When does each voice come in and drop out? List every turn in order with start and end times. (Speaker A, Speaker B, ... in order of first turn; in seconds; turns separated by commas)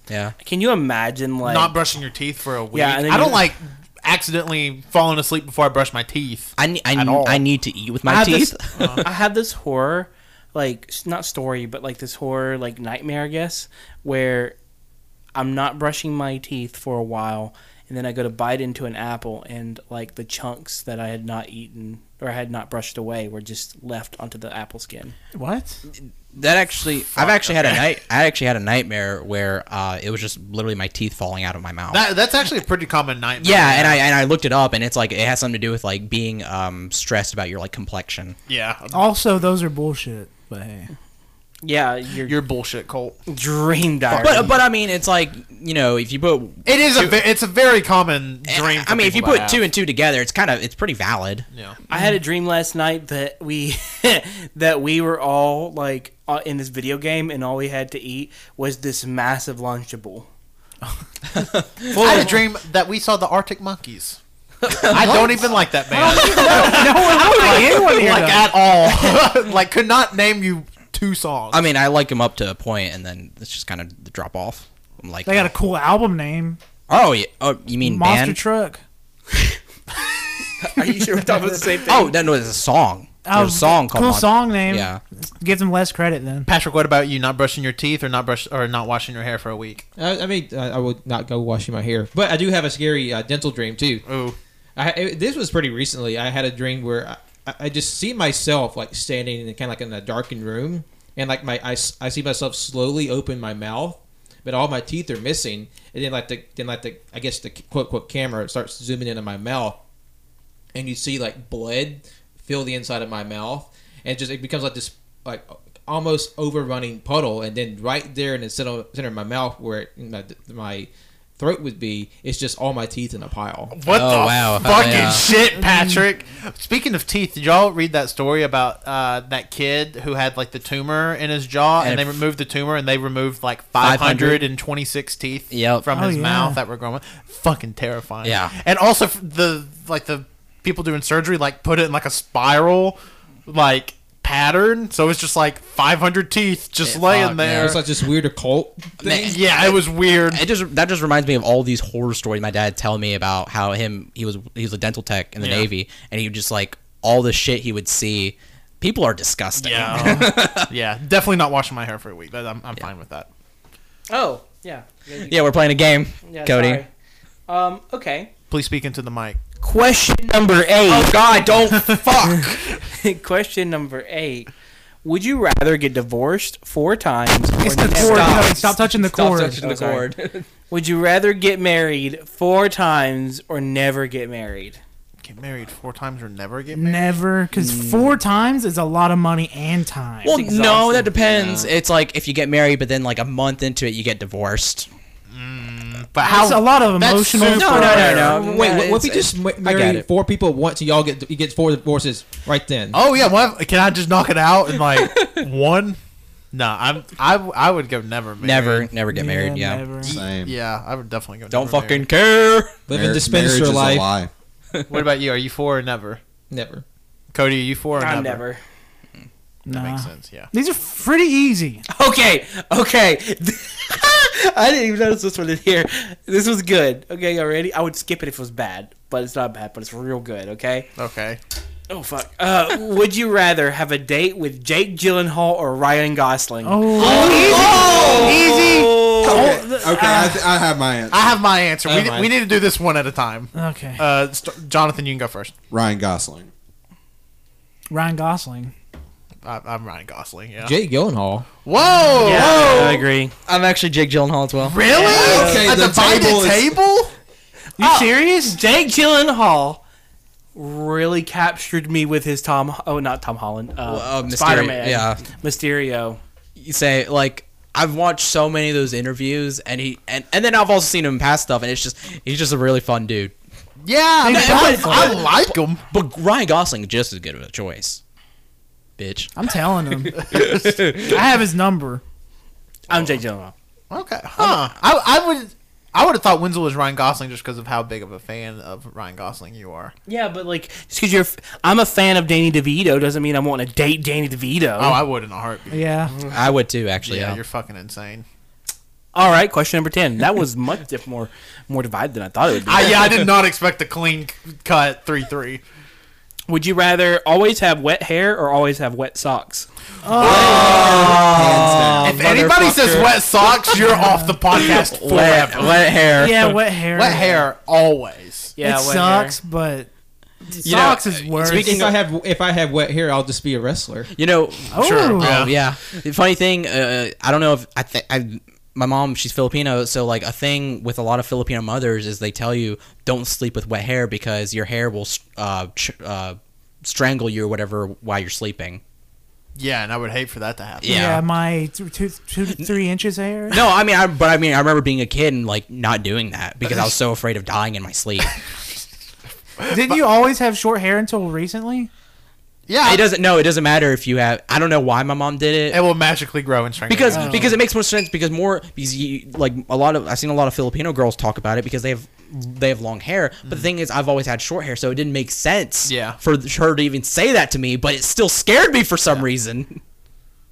Speaker A: 0.1-0.3, Speaker B: 0.4-1.8, Speaker C: 1.4-7.4, Speaker B: 2.7-3.5, Speaker A: 6.6-9.1, Speaker B: 8.1-14.6, Speaker C: 8.8-9.1, Speaker B: 15.3-25.1, Speaker D: 25.3-25.8, Speaker A: 26.3-32.1, Speaker C: 27.1-27.9, Speaker C: 31.9-34.0, Speaker A: 33.4-38.4, Speaker C: 38.5-39.0, Speaker D: 38.9-40.9, Speaker B: 41.6-42.4, Speaker C: 42.2-43.2, Speaker B: 43.3-44.6, Speaker C: 44.1-44.6, Speaker A: 44.1-47.2, Speaker C: 46.7-49.7, Speaker A: 48.5-51.5, Speaker C: 51.5-51.8, Speaker B: 51.9-60.3, Speaker D: 51.9-52.2, Speaker A: 61.4-62.4, Speaker C: 61.9-64.2, Speaker A: 64.6-68.1, Speaker C: 64.7-71.7, Speaker D: 65.0-65.3, Speaker D: 65.9-68.5, Speaker A: 71.5-75.5, Speaker D: 75.3-76.6, Speaker A: 76.9-78.4, Speaker D: 77.8-78.8, Speaker A: 80.6-85.0, Speaker B: 80.7-82.1, Speaker D: 83.2-86.5, Speaker C: 86.5-89.8, Speaker E: 90.0-94.0, Speaker C: 94.1-94.4, Speaker E: 94.8-109.8, Speaker E: 110.7-123.8, Speaker C: 123.7-147.8, Speaker A: 123.9-125.2, Speaker D: 125.3-126.0, Speaker A: 131.8-132.2, Speaker A: 133.8-134.5, Speaker A: 135.5-135.9, Speaker D: 135.9-136.6, Speaker A: 138.2-138.5, Speaker A: 146.8-147.8, Speaker E: 147.4-149.4, Speaker A: 149.0-160.7, Speaker C: 149.2-150.4, Speaker C: 155.4-155.7, Speaker C: 159.6-163.3, Speaker B: 164.1-165.4, Speaker A: 165.2-166.8, Speaker B: 166.2-166.9, Speaker B: 167.5-168.3, Speaker C: 168.5-169.4, Speaker B: 169.6-171.3, Speaker A: 170.9-172.6, Speaker C: 171.7-172.1, Speaker B: 172.3-174.5, Speaker B: 175.0-178.7, Speaker A: 177.6-180.5, Speaker D: 177.9-179.6, Speaker B: 179.6-180.1, Speaker B: 180.7-184.8, Speaker C: 185.2-187.2, Speaker D: 186.7-190.4, Speaker A: 187.6-188.2, Speaker A: 190.2-194.9, Speaker B: 190.3-191.2, Speaker F: 191.3-191.7, Speaker C: 195.3-198.4, Speaker D: 196.2-198.3, Speaker A: 197.5-200.1, Speaker B: 198.2-198.7, Speaker E: 198.3-203.0, Speaker C: 202.9-206.0, Speaker C: 206.5-208.9, Speaker A: 208.4-209.8, Speaker D: 209.1-210.2, Speaker C: 210.0-212.0, Speaker F: 210.1-210.6, Speaker A: 211.5-212.8, Speaker E: 212.9-214.1, Speaker F: 212.9-214.3, Speaker C: 214.9-216.2, Speaker E: 216.5-216.8, Speaker C: 217.3-218.4, Speaker B: 218.0-218.6, Speaker D: 219.7-221.8, Speaker C: 219.7-220.5, Speaker B: 221.9-230.9, Speaker C: 231.0-231.4, Speaker B: 231.9-237.3, Speaker D: 236.6-240.5, Speaker F: 237.0-241.4, Speaker A: 237.0-239.5, Speaker C: 241.1-245.5, Speaker E: 241.9-242.3, Speaker D: 243.5-244.0, Speaker F: 245.7-246.5, Speaker D: 247.9-248.7, Speaker C: 249.4-250.8, Speaker E: 250.6-251.5, Speaker C: 251.6-252.8, Speaker B: 252.2-253.3, Speaker F: 252.3-253.0, Speaker A: 252.4-252.9, Speaker A: 253.5-254.8, Speaker C: 254.6-257.1, Speaker B: 254.9-255.7, Speaker F: 255.1-256.8, Speaker D: 257.8-258.6, Speaker B: 257.8-259.8, Speaker B: 260.6-266.2, Speaker A: 263.9-265.2, Speaker A: 266.6-273.3, Speaker C: 273.9-275.8, Speaker D: 274.2-275.2, Speaker A: 274.3-278.0, Speaker A: 279.0-279.3, Speaker D: 279.4-280.3, Speaker A: 280.1-281.2, Speaker C: 280.3-280.8, Speaker D: 280.9-282.0, Speaker B: 282.9-283.5, Speaker C: 283.9-289.9, Speaker A: 284.4-284.7, Speaker B: 290.1-295.0, Speaker C: 294.8-295.8, Speaker D: 295.7-296.1, Speaker A: 296.3-297.4, Speaker C: 297.0-298.2, Speaker B: 299.1-303.2, Speaker C: 302.6-305.6, Speaker B: 306.5-309.7, Speaker D: 310.0-310.8, Speaker F: 310.2-312.2, Speaker A: 310.2-313.2, Speaker C: 310.2-311.1, Speaker C: 312.0-315.9, Speaker D: 313.7-314.4, Speaker A: 314.5-316.6, Speaker D: 316.2-317.4, Speaker C: 316.9-318.6, Speaker B: 318.6-319.4, Speaker D: 318.6-319.9, Speaker D: 320.4-321.9, Speaker A: 320.6-322.0, Speaker E: 321.4-324.1, Speaker A: 324.1-338.8, Speaker D: 324.7-325.4, Speaker C: 324.8-325.5, Speaker C: 339.6-340.9, Speaker A: 340.8-341.2, Speaker D: 340.9-343.6, Speaker A: 343.5-348.4, Speaker C: 346.7-346.9, Speaker C: 349.6-350.0, Speaker D: 349.7-351.9, Speaker C: 352.7-353.1, Speaker A: 352.8-355.8, Speaker C: 355.7-357.6, Speaker A: 356.9-369.8, Speaker D: 357.1-357.6, Speaker C: 365.9-366.2